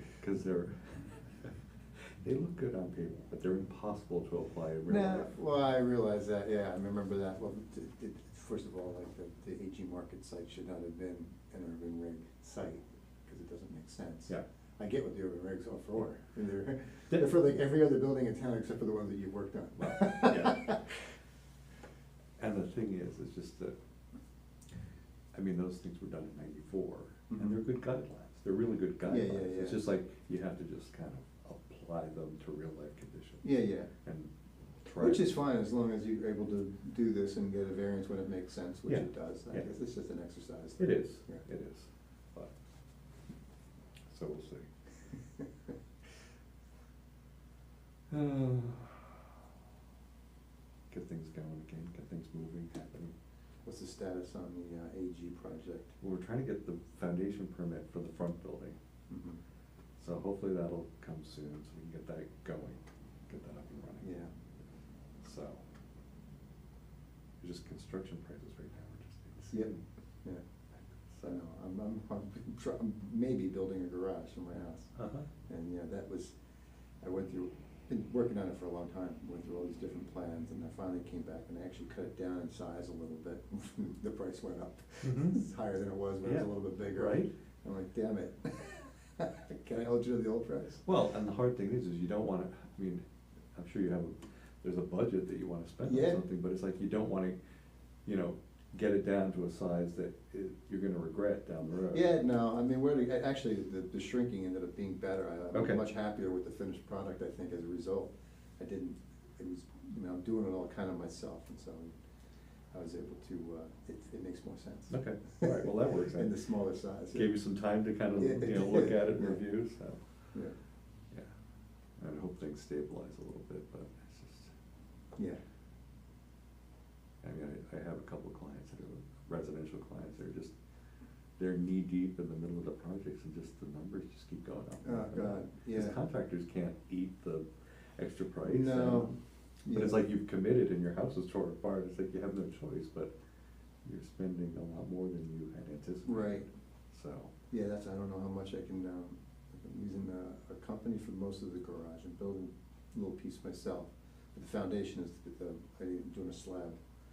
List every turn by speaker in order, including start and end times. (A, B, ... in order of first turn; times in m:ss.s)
0:00.2-0:01.5 A
0:02.2-0:05.3 A
0:04.9-0:20.8 B
0:19.8-0:20.8 A
0:22.4-0:23.7 A
0:25.3-0:33.5 A
0:27.3-0:27.6 B
0:29.0-0:29.9 B
0:33.4-0:33.9 B
0:34.0-0:34.3 A
0:34.8-0:35.3 A
0:35.0-0:41.4 B
0:38.9-0:39.7 A
0:40.8-0:42.5 A
0:44.1-0:44.7 A
0:48.1-0:49.1 A
0:50.9-0:53.1 A
0:53.6-0:56.0 B
0:56.0-0:58.8 A
0:59.1-0:59.4 B
1:00.0-1:04.1 A
1:04.0-1:04.3 B
1:05.2-1:05.6 A
1:07.4-1:09.8 A
1:09.5-1:10.4 B
1:10.8-1:11.4 A
1:11.2-1:14.9 B
1:14.9-1:15.3 A
1:15.5-1:16.4 B
1:17.0-1:30.8 B
1:25.0-1:25.4 A
1:26.2-1:27.3 A
1:30.8-1:37.4 A
1:35.8-1:36.2 B
1:38.0-1:42.1 A
1:41.9-1:51.9 B
1:45.5-1:45.8 A
1:52.7-1:57.4 B
1:54.9-1:56.3 A
1:57.1-2:00.0 A
1:58.1-1:59.4 B
2:02.0-2:04.5 A
2:07.2-2:10.5 A
2:11.4-2:19.1 A
2:14.8-2:16.0 B
2:18.4-2:20.1 B
2:19.7-2:23.1 A
2:23.8-2:27.3 A
2:26.0-2:26.4 B
2:27.5-2:36.8 B